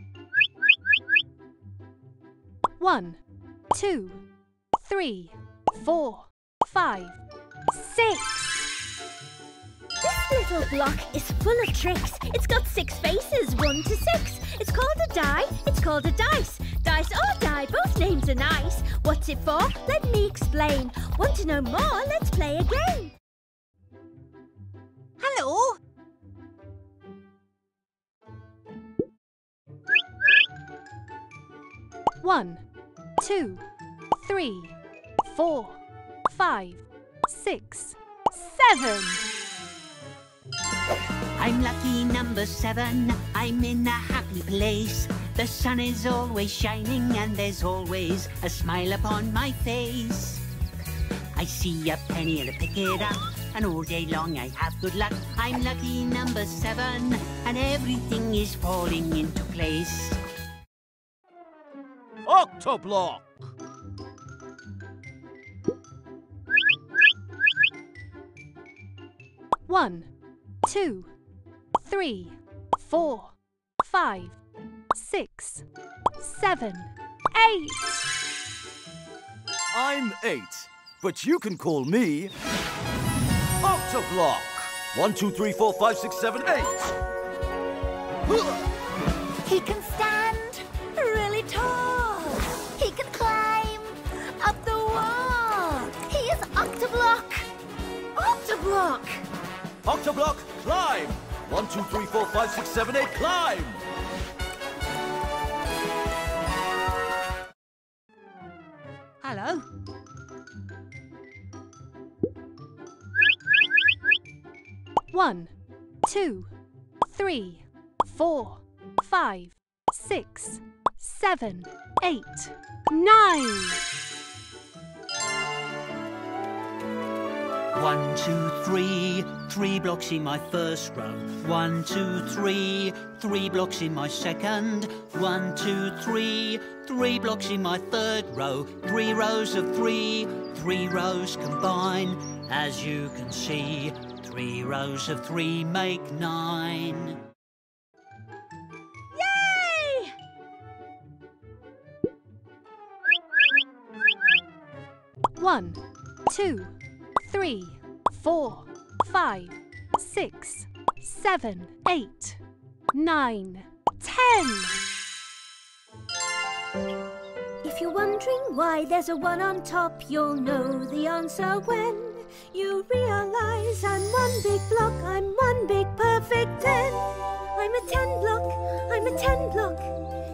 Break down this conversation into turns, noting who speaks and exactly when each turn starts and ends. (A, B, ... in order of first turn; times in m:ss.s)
0:02.8-0:03.2 A
0:03.7-0:04.2 A
0:04.8-0:07.2 A
0:07.7-0:08.6 A
0:10.0-0:23.1 B
0:32.2-0:32.6 A
0:33.2-0:33.6 A
0:34.2-0:39.2 A
0:41.4-0:50.4 C
0:51.4-1:00.2 C
1:02.3-1:03.2 D
1:09.7-1:10.1 A
1:10.6-1:11.1 A
1:11.8-1:14.4 A
1:14.9-1:15.7 A
1:16.2-1:18.1 A
1:19.7-1:22.3 D
1:23.6-1:26.8 D
1:28.3-1:28.6 D
1:29.5-1:37.4 B
1:38.2-1:39.2 B
1:39.8-1:43.8 D
1:55.1-1:55.5 A
1:56.0-1:56.5 A
1:57.0-2:03.8 A
2:07.7-2:27.2 C
2:29.1-2:30.1 B
2:35.4-2:42.4 A
2:42.9-2:44.8 A
2:47.6-2:59.9 B